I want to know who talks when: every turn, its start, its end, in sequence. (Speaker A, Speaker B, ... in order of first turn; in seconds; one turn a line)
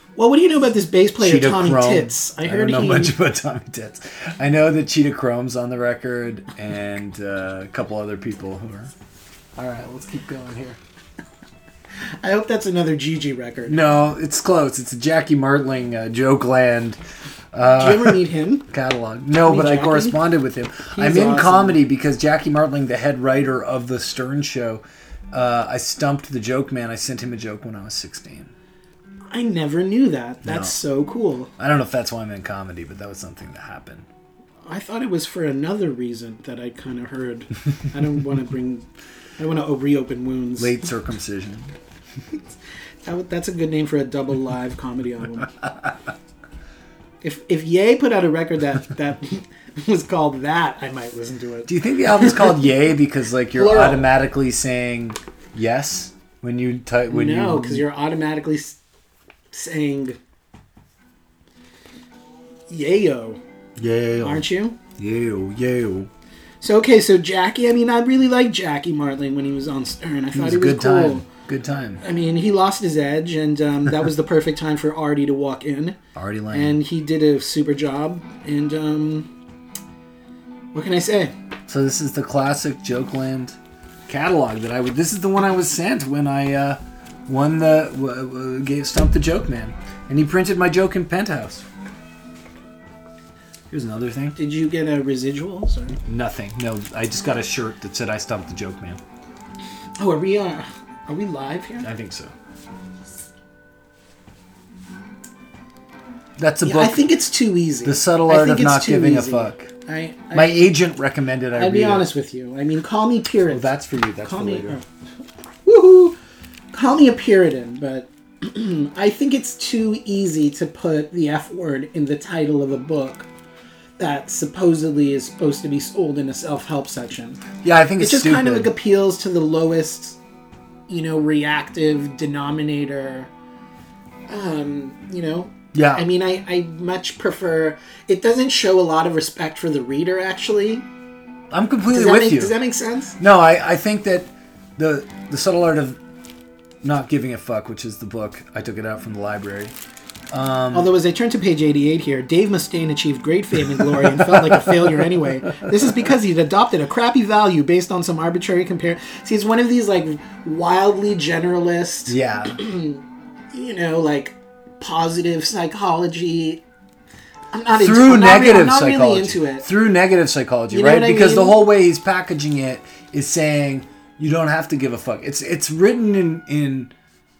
Speaker A: 0.1-3.1
Speaker B: 1.2-8.9
Speaker A: 9.6-10.8
Speaker A: 12.2-13.8
Speaker B: 13.7-17.0
Speaker B: 17.5-28.5
Speaker A: 17.8-18.7
Speaker A: 19.4-20.2
Speaker A: 20.9-21.8
Speaker A: 29.3-31.5
Speaker B: 30.4-30.8
Speaker B: 31.6-34.1
Speaker A: 34.6-38.9
Speaker A: 39.4-40.7
Speaker B: 40.6-41.7
Speaker A: 43.0-45.5
Speaker A: 47.2-52.6
Speaker B: 51.7-57.9
Speaker A: 53.5-54.1
Speaker A: 57.1-58.8
Speaker A: 59.5-60.2
Speaker A: 62.7-63.4
Speaker B: 63.8-66.1
Speaker A: 64.2-64.8
Speaker A: 66.6-71.2
Speaker B: 70.3-72.0
Speaker A: 72.0-76.0
Speaker B: 76.1-76.8
Speaker A: 76.5-79.3
Speaker A: 80.7-81.3
Speaker B: 81.7-83.6
Speaker B: 84.1-91.6
Speaker B: 93.7-94.4
Speaker A: 94.3-96.0
Speaker B: 96.0-99.0
Speaker A: 100.0-101.9
Speaker B: 101.8-102.3
Speaker B: 106.4-107.2
Speaker A: 106.6-110.7
Speaker B: 107.8-109.7
Speaker B: 110.3-112.1
Speaker A: 111.5-114.8
Speaker B: 113.5-114.8
Speaker A: 115.6-116.2
Speaker A: 116.7-123.3
Speaker A: 124.0-127.4
Speaker B: 127.6-128.7
Speaker A: 128.0-130.2
Speaker A: 130.9-133.3
Speaker A: 134.3-140.8
Speaker B: 135.7-136.1
Speaker B: 141.5-142.6
Speaker A: 141.9-143.2
Speaker B: 143.2-146.0
Speaker B: 146.8-149.7
Speaker B: 150.3-150.9
Speaker A: 150.7-166.6
Speaker B: 154.0-155.7
Speaker B: 162.1-162.6
Speaker A: 167.5-169.7
Speaker B: 167.7-176.9
Speaker A: 170.7-171.6